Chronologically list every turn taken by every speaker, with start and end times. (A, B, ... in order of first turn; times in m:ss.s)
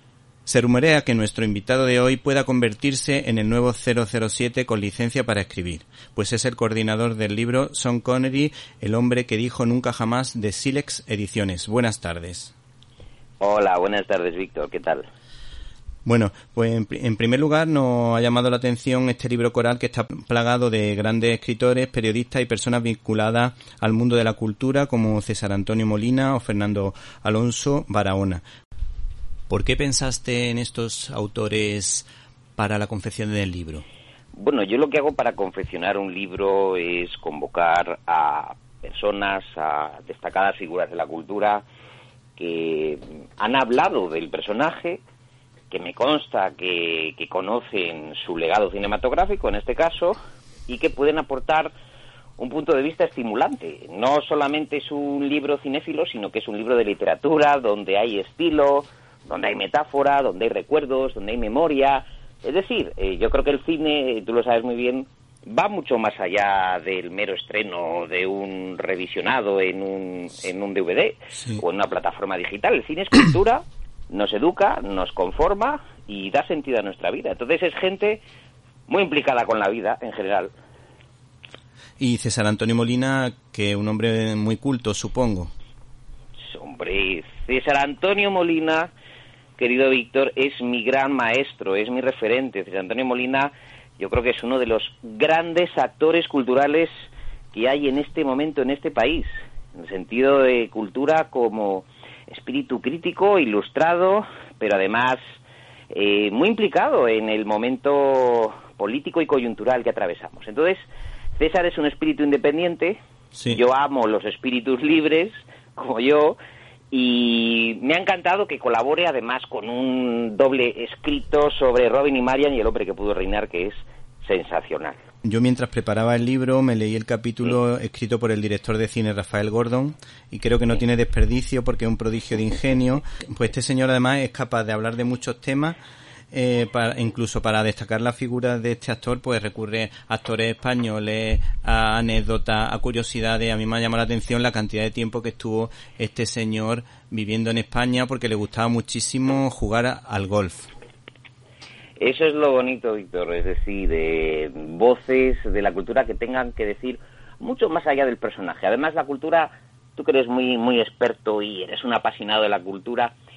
0:00.5-0:12.5 A
0:13.4-0:15.1 B
0:16.0-0:28.4 A
0:29.5-0:33.8 A
0:34.3-0:41.6 B
0:42.4-0:45.0 B
0:45.7-0:51.7 B
0:52.4-1:18.2 B
1:11.3-1:11.6 A
1:18.9-1:20.5 B
1:22.0-1:25.5 A
1:26.5-1:28.9 B
1:29.6-1:36.9 B
1:37.5-1:45.2 B
1:45.9-1:53.0 B
1:53.3-1:53.6 A
1:53.5-1:56.4 B
1:56.9-2:05.0 B
2:05.2-2:15.8 A
2:16.3-2:30.7 A
2:32.0-2:43.1 B